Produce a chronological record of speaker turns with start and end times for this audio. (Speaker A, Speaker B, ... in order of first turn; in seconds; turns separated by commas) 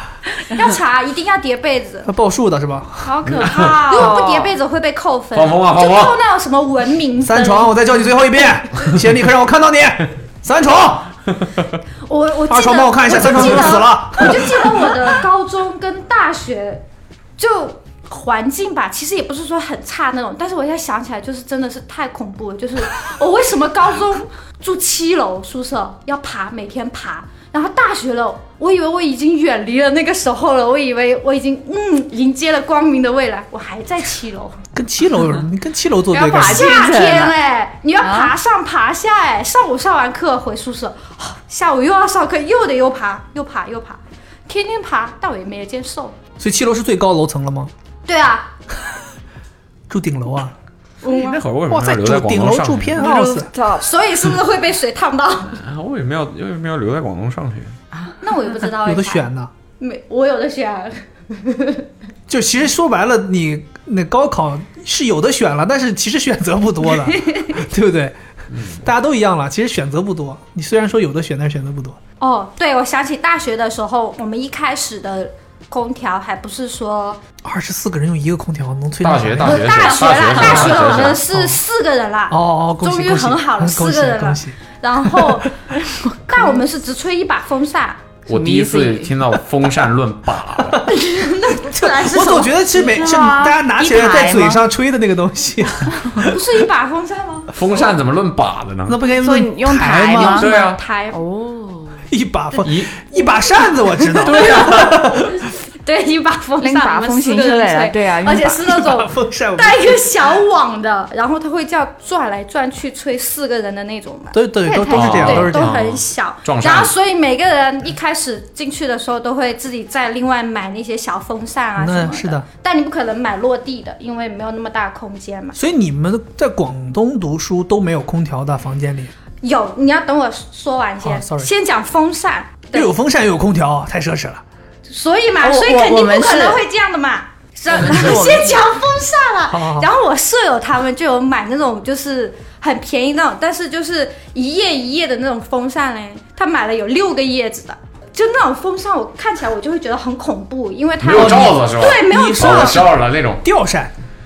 Speaker A: 0.5-2.1, Speaker B: 2.1-3.1, Speaker C: 3.1-4.6, Speaker D: 3.2-4.0, Speaker A: 3.2-7.8, Speaker D: 5.3-6.2, Speaker B: 7.2-11.1, Speaker A: 12.1-16.8, Speaker B: 12.5-14.6, Speaker A: 17.4-34.6, Speaker B: 34.8-36.7, Speaker C: 36.1-37.4, Speaker A: 36.2-46.2, Speaker C: 38.0-38.3, Speaker B: 46.4-47.7, Speaker A: 48.1-48.5, Speaker B: 49.9-50.5, Speaker A: 51.0-51.4, Speaker D: 51.0-53.0, Speaker B: 51.7-53.5, Speaker C: 53.0-53.9, Speaker A: 53.8-55.6, Speaker D: 55.5-57.7, Speaker A: 58.2-61.9, Speaker B: 58.9-59.5, Speaker B: 62.3-68.2, Speaker A: 67.0-67.5, Speaker D: 68.5-68.8, Speaker B: 68.8-72.0, Speaker A: 72.2-77.2, Speaker B: 77.4-79.7, Speaker D: 79.0-81.2, Speaker A: 79.5-85.5, Speaker B: 80.4-81.6, Speaker B: 82.3-84.6, Speaker B: 85.1-85.5, Speaker C: 85.9-86.6, Speaker A: 86.3-88.1, Speaker C: 88.3-89.2, Speaker D: 88.3-90.9, Speaker A: 90.9-92.5, Speaker B: 91.7-96.4, Speaker C: 92.4-94.6, Speaker A: 96.2-97.5, Speaker D: 97.5-99.0, Speaker B: 98.9-100.5, Speaker C: 99.2-100.5, Speaker A: 100.2-101.2, Speaker D: 100.2-100.8, Speaker C: 101.1-102.0, Speaker B: 102.1-105.4, Speaker D: 102.6-102.9, Speaker A: 104.1-104.9, Speaker D: 104.2-105.0, Speaker A: 105.8-125.6, Speaker C: 106.6-108.7, Speaker B: 108.7-110.1, Speaker B: 114.3-115.7, Speaker D: 114.9-116.9, Speaker B: 121.8-122.5, Speaker B: 125.5-129.1, Speaker A: 129.4-132.9, Speaker B: 131.0-131.5, Speaker B: 132.7-134.4, Speaker A: 134.9-152.8, Speaker C: 135.4-136.6, Speaker C: 137.7-138.8, Speaker B: 139.5-139.9, Speaker D: 151.0-153.4, Speaker B: 151.1-153.9